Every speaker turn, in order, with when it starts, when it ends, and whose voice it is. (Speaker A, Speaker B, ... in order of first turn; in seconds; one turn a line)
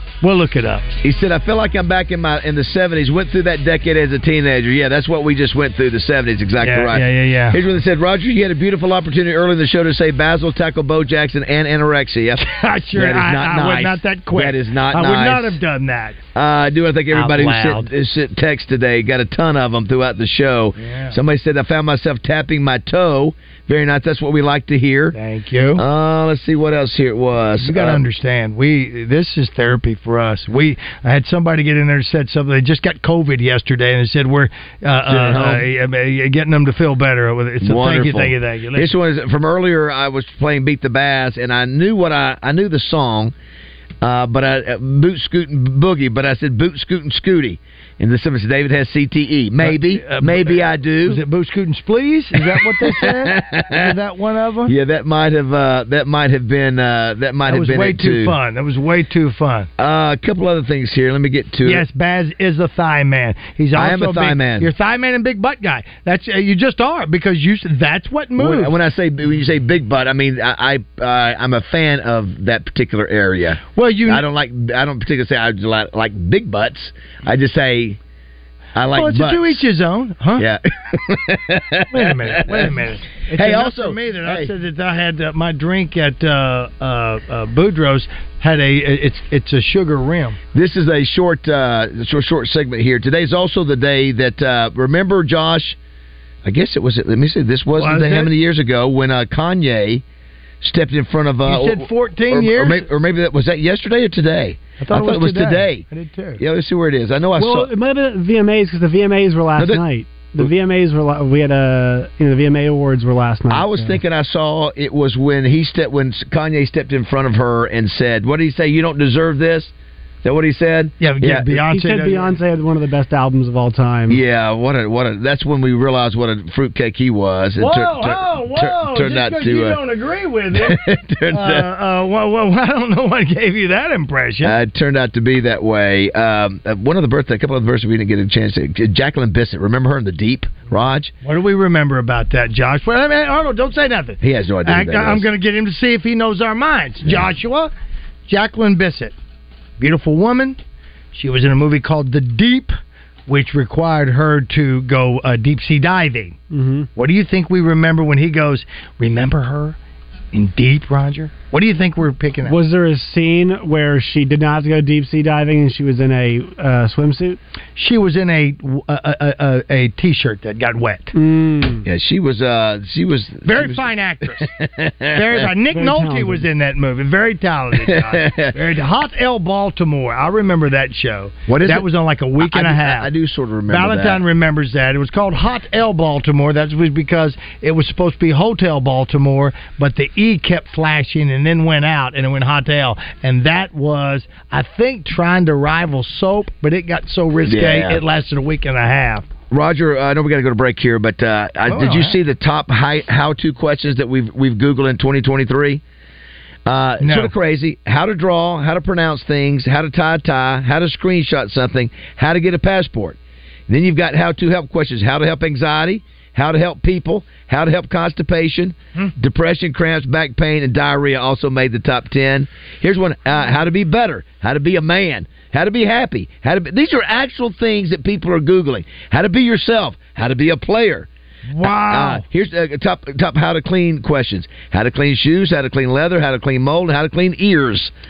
Speaker A: 0.2-0.9
Speaker B: 1.0-15.6
Speaker A: 6.6-7.6
Speaker A: 12.4-16.2
Speaker B: 16.4-25.2
Speaker A: 17.1-17.9
Speaker A: 20.8-21.2
Speaker A: 25.1-25.8
Speaker B: 25.8-28.0
Speaker A: 27.6-38.9
Speaker B: 35.1-35.7
Speaker B: 37.6-43.3
Speaker B: 44.0-51.2
Speaker A: 49.6-54.7
Speaker B: 52.4-54.0
Speaker B: 54.7-58.4
Speaker A: 57.5-59.7
Speaker B: 59.8-61.9
Speaker A: 61.6-68.7
Speaker B: 63.7-64.7
Speaker B: 68.4-78.0
Speaker A: 73.8-74.2
Speaker B: 78.8-79.6
Speaker A: 78.9-80.5
Speaker B: 80.4-82.7
Speaker A: 81.9-90.4
Speaker B: 83.3-84.5
Speaker B: 90.5-95.8
Speaker B: 96.4-100.0
Speaker A: 97.8-98.3
Speaker B: 100.6-105.8
Speaker A: 101.5-102.9
Speaker A: 104.8-106.4
Speaker B: 106.4-107.7
Speaker C: 107.4-113.7
Speaker B: 109.6-109.8
Speaker B: 113.5-119.7
Speaker B: 120.2-121.5
Speaker A: 121.0-122.4
Speaker C: 121.5-124.2
Speaker B: 124.1-129.8
Speaker A: 127.6-134.6
Speaker B: 130.5-131.7
Speaker B: 134.4-141.1
Speaker A: 141.2-147.7
Speaker B: 144.2-145.3
Speaker A: 148.3-149.2
Speaker A: 149.8-150.6
Speaker A: 151.1-152.8
Speaker A: 153.3-156.4
Speaker C: 156.5-156.9
Speaker A: 157.0-159.8
Speaker A: 160.3-162.6
Speaker C: 162.4-167.4
Speaker A: 167.8-171.1
Speaker C: 171.1-171.8
Speaker B: 171.8-175.5
Speaker A: 173.4-174.5
Speaker A: 175.1-183.1
Speaker C: 175.7-176.4
Speaker B: 177.8-178.6
Speaker B: 181.5-181.9
Speaker B: 182.4-184.2
Speaker A: 183.7-199.3
Speaker B: 197.4-198.0
Speaker B: 199.5-205.8
Speaker A: 201.7-202.2
Speaker B: 206.7-231.1
Speaker A: 207.0-207.3
Speaker A: 231.5-232.2
Speaker B: 231.6-237.9